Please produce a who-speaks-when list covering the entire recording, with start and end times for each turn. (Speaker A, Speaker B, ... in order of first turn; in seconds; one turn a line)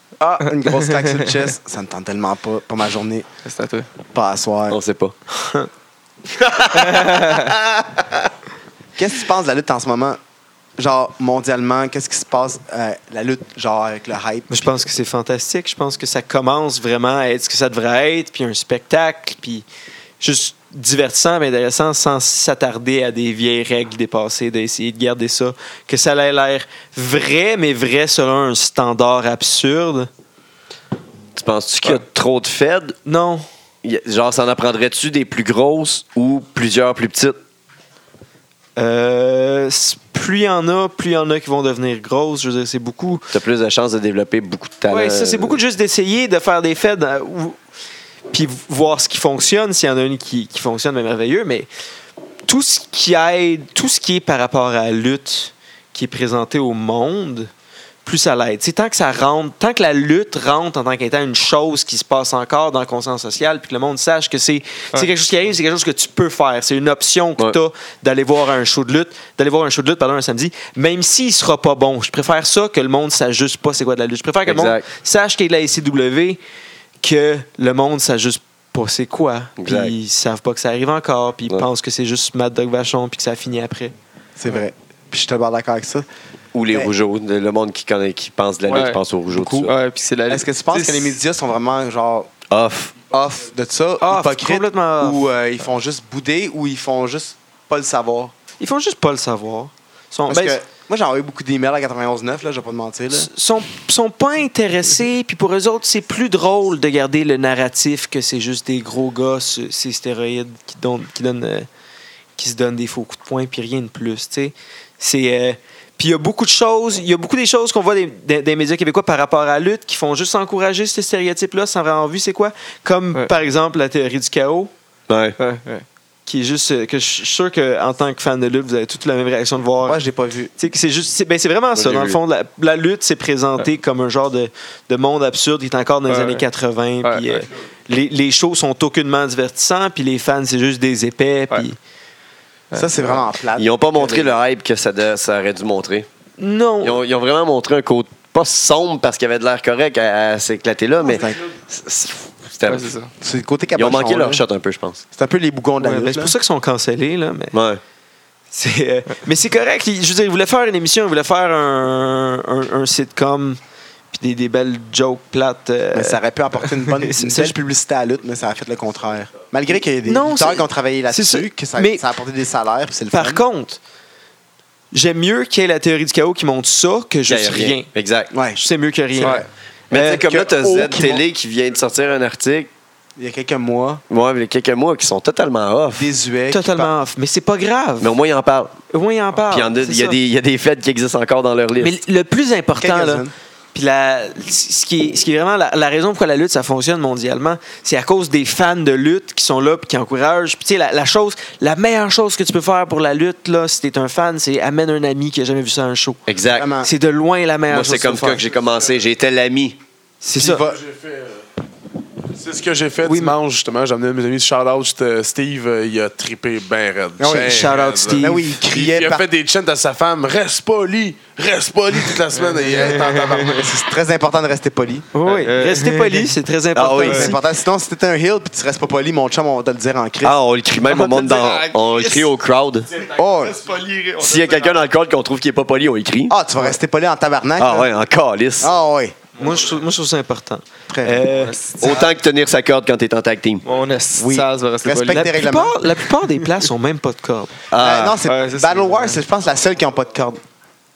Speaker A: 0.2-3.3
Speaker B: 3.5-3.9
Speaker A: 4.1-4.8
Speaker C: 4.7-5.2
Speaker D: 5.4-5.7
Speaker C: 6.4-8.1
Speaker B: 6.9-7.4
Speaker A: 9.0-10.2
Speaker A: 10.8-14.8
Speaker D: 14.5-19.6
Speaker D: 20.2-30.1
Speaker C: 31.4-33.0
Speaker D: 33.1-33.5
Speaker C: 33.8-37.4
Speaker D: 38.8-43.2
Speaker C: 43.3-45.6
Speaker D: 44.9-47.6
Speaker D: 48.3-51.7
Speaker D: 52.5-57.5
Speaker D: 58.0-76.4
Speaker C: 74.5-74.8
Speaker D: 77.0-83.9
Speaker C: 79.6-79.9
Speaker A: 84.4-86.1
Speaker C: 86.5-89.8
Speaker B: 88.7-91.2
Speaker A: 90.3-92.3
Speaker C: 92.5-93.0
Speaker A: 93.1-98.3
Speaker D: 94.0-95.2
Speaker D: 98.6-100.6
Speaker A: 100.3-103.3
Speaker D: 103.1-111.7
Speaker D: 112.4-124.7
Speaker C: 125.1-125.4
Speaker B: 125.4-125.8
Speaker D: 126.3-130.0
Speaker A: 129.8-130.5
Speaker D: 130.6-141.8
Speaker C: 131.8-132.2
Speaker B: 136.1-136.4
Speaker B: 137.0-137.4
Speaker B: 142.7-143.2
Speaker A: 142.7-144.3
Speaker C: 143.6-146.1
Speaker D: 146.4-147.0
Speaker C: 146.8-152.9
Speaker A: 151.0-151.4
Speaker B: 152.7-153.1
Speaker A: 153.2-154.4
Speaker C: 153.8-155.0
Speaker A: 155.2-156.3
Speaker D: 155.8-157.6
Speaker C: 157.5-157.8
Speaker D: 158.5-163.6
Speaker D: 164.1-166.2
Speaker A: 165.9-173.4
Speaker D: 167.0-167.6
Speaker D: 170.1-172.0
Speaker D: 173.1-173.8
Speaker D: 174.9-177.9
Speaker C: 177.3-178.3
Speaker A: 178.3-178.6
Speaker D: 178.6-180.2
Speaker A: 179.2-179.5
Speaker B: 179.2-179.5
Speaker C: 179.9-182.7
Speaker A: 180.2-181.2
Speaker A: 183.2-184.0
Speaker C: 184.1-186.1
Speaker A: 186.0-186.9
Speaker D: 186.5-188.1
Speaker C: 188.0-188.8
Speaker D: 188.9-190.2
Speaker C: 189.5-191.9
Speaker D: 191.8-206.2
Speaker A: 192.8-193.3
Speaker C: 206.3-206.7
Speaker A: 206.5-206.9
Speaker D: 206.8-208.4
Speaker C: 207.7-209.8
Speaker D: 210.2-210.7
Speaker A: 210.4-210.8
Speaker E: 210.4-211.4
Speaker E: 212.3-223.7
Speaker D: 213.0-213.4
Speaker A: 217.2-219.2
Speaker D: 217.2-218.5
Speaker B: 222.4-223.0
Speaker A: 223.5-225.1
Speaker D: 225.1-227.4
Speaker B: 225.2-226.3
Speaker C: 226.8-227.3
Speaker A: 227.0-230.4
Speaker C: 230.2-232.9
Speaker B: 230.8-232.3
Speaker B: 233.1-234.8
Speaker A: 233.1-233.6
Speaker C: 234.2-236.3
Speaker A: 236.3-237.9
Speaker C: 237.6-238.7
Speaker A: 238.6-239.2
Speaker D: 239.4-241.6
Speaker B: 239.4-239.7
Speaker A: 240.9-241.2
Speaker B: 241.3-242.1
Speaker C: 241.8-243.6
Speaker B: 243.6-245.3
Speaker A: 244.2-245.8
Speaker D: 245.1-247.6
Speaker C: 247.7-248.2
Speaker A: 247.8-250.4
Speaker B: 248.2-249.2